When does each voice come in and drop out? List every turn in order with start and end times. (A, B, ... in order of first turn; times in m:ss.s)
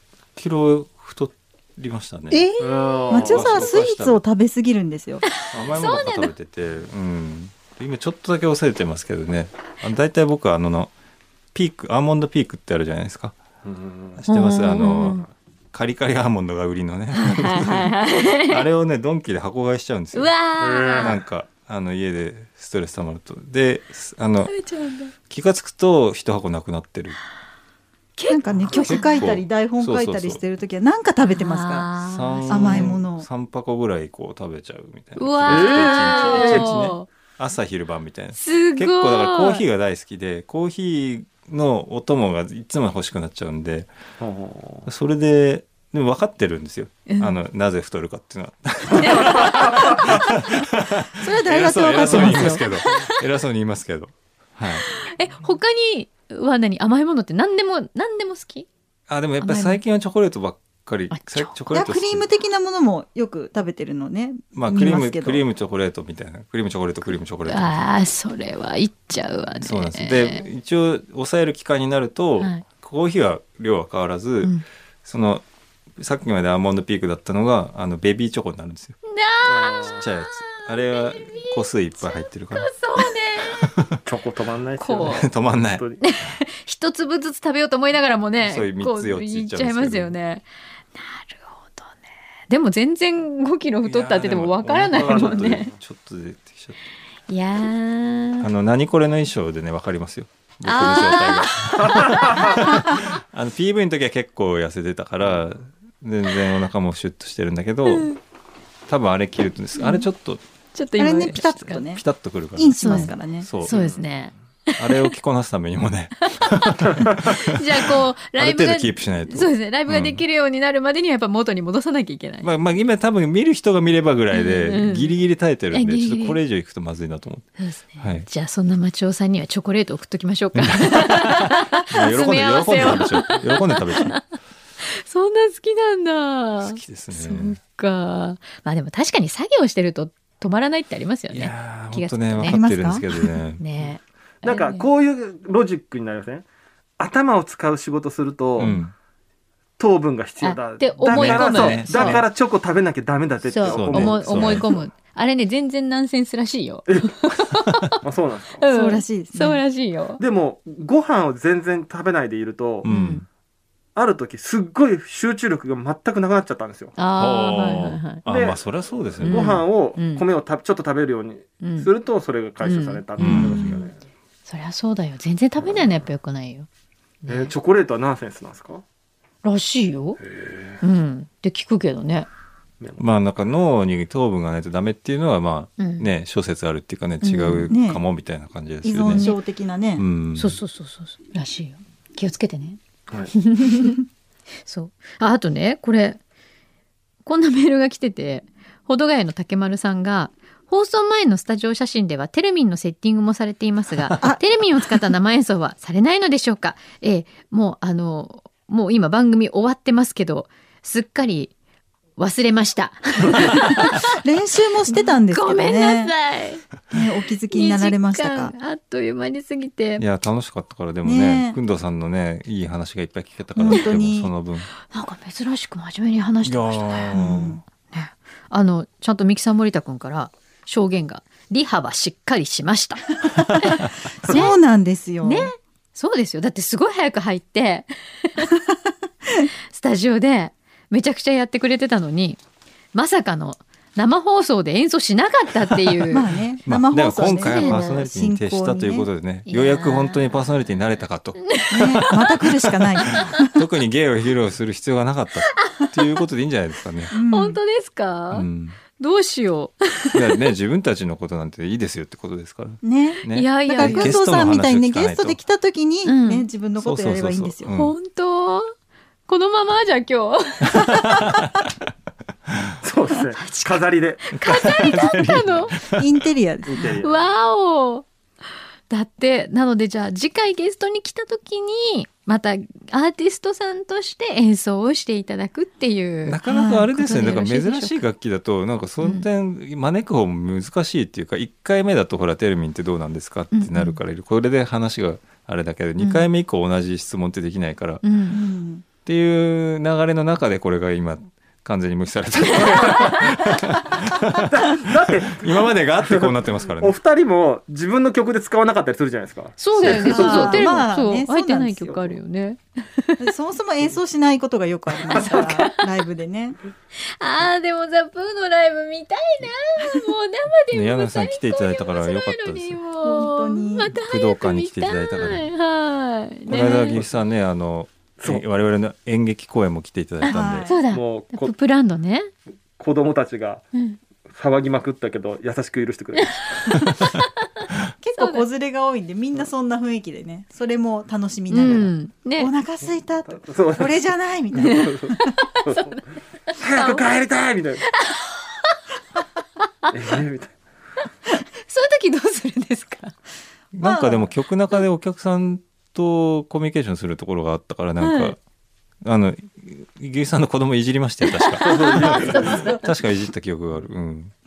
0:00.4-0:02.5 A
0:02.3-0:05.2 B
0:02.6-0:03.7 C
0:03.1-0:04.2 A
0:05.3-0:06.3 D
0:05.5-0:10.9 A
0:11.5-0:13.4 A
0:13.6-0:14.2 C
0:14.2-0:20.3 A
0:14.3-0:15.3 D
0:17.1-0:18.6 D
0:20.1-0:21.2 D
0:20.6-0:21.2 C
0:21.0-0:24.5 A
0:24.4-0:25.1 D
0:25.3-0:27.2 A
0:28.2-0:29.4 D
0:28.3-0:31.9 B
0:28.8-0:30.4 A
0:31.3-0:32.9 D
0:32.0-0:43.9 A
0:32.5-0:33.3 B
0:35.2-0:37.1 D
0:35.5-0:36.9 C
0:38.4-0:39.6 D
0:44.2-0:44.9 C
0:44.9-0:54.9 A
0:47.1-0:47.3 D
0:49.0-0:50.0 C
0:49.2-0:49.6 D
0:51.2-0:52.6 B
0:52.0-0:53.2 D
0:54.8-0:58.7 D
0:59.1-1:02.2 A
0:59.4-0:59.8 D
1:01.1-1:01.6 D
1:01.7-1:05.4 B
1:04.5-1:07.8 A
1:04.7-1:05.0 D
1:07.5-1:10.5 D
1:09.6-1:15.4 A
1:12.4-1:12.6 D
1:16.0-1:19.0 A
1:19.1-1:23.7 D
1:19.4-1:20.0 C
1:20.0-1:22.7 A
1:23.6-1:24.0 A
1:24.0-1:26.0 C
1:24.8-1:25.3 D
1:25.0-1:25.8 A
1:26.0-1:32.0 D
1:28.4-1:30.2 A
1:32.5-1:35.7 D
1:33.8-1:36.8 A
1:35.0-1:35.7 C
1:37.3-1:38.5 D
1:38.4-1:48.1 A
1:40.6-1:42.9 D
1:41.8-1:42.6 C
1:47.9-1:48.2 D
1:48.9-1:50.4 A
1:49.8-1:50.1 D
1:50.7-1:51.8 D
1:51.0-1:53.5 B
1:51.7-1:53.8 A
1:52.8-1:55.1 D
1:53.7-1:54.0 C
1:54.8-2:00.2 A
1:56.3-2:02.5 D
2:02.4-2:08.3 A
2:04.3-2:05.1 D
2:05.7-2:06.4 D
2:07.6-2:14.2 D
2:10.6-2:14.2 A
2:14.8-2:24.9 D
2:16.6-2:17.6 A
2:21.3-2:23.6 A
2:22.4-2:23.0 B
2:24.4-2:26.4 C
2:27.0-2:28.7 C
2:28.6-2:28.9 A
2:28.6-2:28.9 D
2:29.8-2:34.9 C
2:30.4-2:32.2 D
2:31.1-2:32.3 A
2:33.5-2:38.0 D
2:33.7-2:34.7 A
2:36.9-2:37.2 C
2:38.0-2:38.6 C
2:38.6-2:40.2 D
2:38.7-2:39.6 B
2:40.2-2:42.9 C
2:42.8-2:43.2 A
2:42.8-2:43.2 D
2:44.0-2:46.9 C
2:47.0-2:48.2 D
2:47.2-2:49.6 A
2:48.3-2:48.6 C
2:49.2-2:54.0 C
2:49.2-2:50.2 D
2:51.6-2:51.9 D
2:52.6-2:53.7 D
2:53.2-2:53.9 A
2:53.3-2:53.8 B
2:54.5-2:56.7 D
2:57.2-2:57.5 D
2:57.3-2:58.8 C
2:59.4-3:00.2 D
3:00.2-3:00.8 C
3:00.8-3:02.3 D
3:03.0-3:09.2 A
3:05.8-3:06.1 D
3:07.2-3:07.7 D
3:07.7-3:08.0 B
3:08.8-3:10.1 B
3:09.0-3:09.4 D
3:10.0-3:10.6 A
3:10.4-3:12.8 D
3:13.3-3:14.0 D
3:14.6-3:16.2 D
3:17.3-3:31.5 D
3:32.2-3:34.2 D
3:34.0-3:36.1 B
3:34.9-3:36.6 D
3:36.9-3:38.5 B
3:37.5-3:40.0 D
3:40.0-3:44.7 A
3:41.0-3:41.6 B
3:43.6-3:44.3 B
3:44.9-3:53.0 D
3:46.4-3:47.6 A
3:47.2-3:47.6 B
3:53.6-3:54.6 D
3:54.2-3:55.5 B
3:55.2-3:58.5 D
3:59.7-4:02.4 D
4:02.9-4:06.3 D
4:06.1-4:09.1 B
4:06.6-4:12.5 A
4:07.1-4:08.1 D
4:09.5-4:10.4 D
4:11.4-4:12.1 D
4:11.7-4:13.6 B
4:13.1-4:17.2 A
4:15.6-4:15.9 D
4:17.1-4:17.6 B
4:17.3-4:18.5 D
4:18.3-4:18.8 A
4:19.0-4:20.5 D
4:20.1-4:25.4 A
4:22.8-4:27.7 B
4:23.3-4:24.2 D
4:26.1-4:26.5 D
4:26.8-4:27.9 A
4:27.7-4:28.7 D
4:29.3-4:31.0 D
4:30.7-4:31.7 A
4:32.5-4:32.8 A
4:32.8-4:34.3 C
4:33.4-4:35.8 D
4:34.4-4:36.2 A
4:36.0-4:36.9 B
4:36.6-4:37.2 C
4:37.0-4:38.1 D
4:38.9-4:48.0 D
4:46.2-4:58.0 A
4:46.4-4:46.8 B
4:53.5-4:54.0 D
4:56.0-4:56.3 D
4:58.0-4:58.4 D
4:58.3-4:58.8 B
4:59.0-5:07.0 A
5:02.6-5:03.2 C
5:02.7-5:03.2 D
5:04.4-5:10.8 C
5:09.6-5:13.3 D
5:09.8-5:10.6 A
5:10.0-5:12.2 B
5:13.2-5:16.6 B
5:15.1-5:15.8 D
5:15.1-5:15.6 C
5:17.0-5:27.0 D
5:20.7-5:22.8 A
5:23.0-5:24.0 B
5:24.1-5:25.5 A
5:26.5-5:30.7 A
5:30.2-5:32.3 D
5:30.3-5:30.8 B
5:30.9-5:31.5 C
5:32.8-5:33.6 C
5:33.7-5:34.0 D
5:34.3-5:36.9 C
5:36.6-5:37.2 D
5:38.0-5:45.3 B
5:38.2-5:38.4 D
5:41.5-5:42.5 D
5:43.3-5:47.8 C
5:44.6-5:47.1 D
5:47.9-5:48.8 D
5:49.8-5:50.2 D
5:49.9-5:50.5 C
5:51.7-5:53.2 D
5:53.7-5:58.4 A
5:53.8-5:54.3 B
5:58.0-5:58.4 D
5:59.0-6:04.3 A
6:01.3-6:02.9 D
6:01.6-6:02.8 C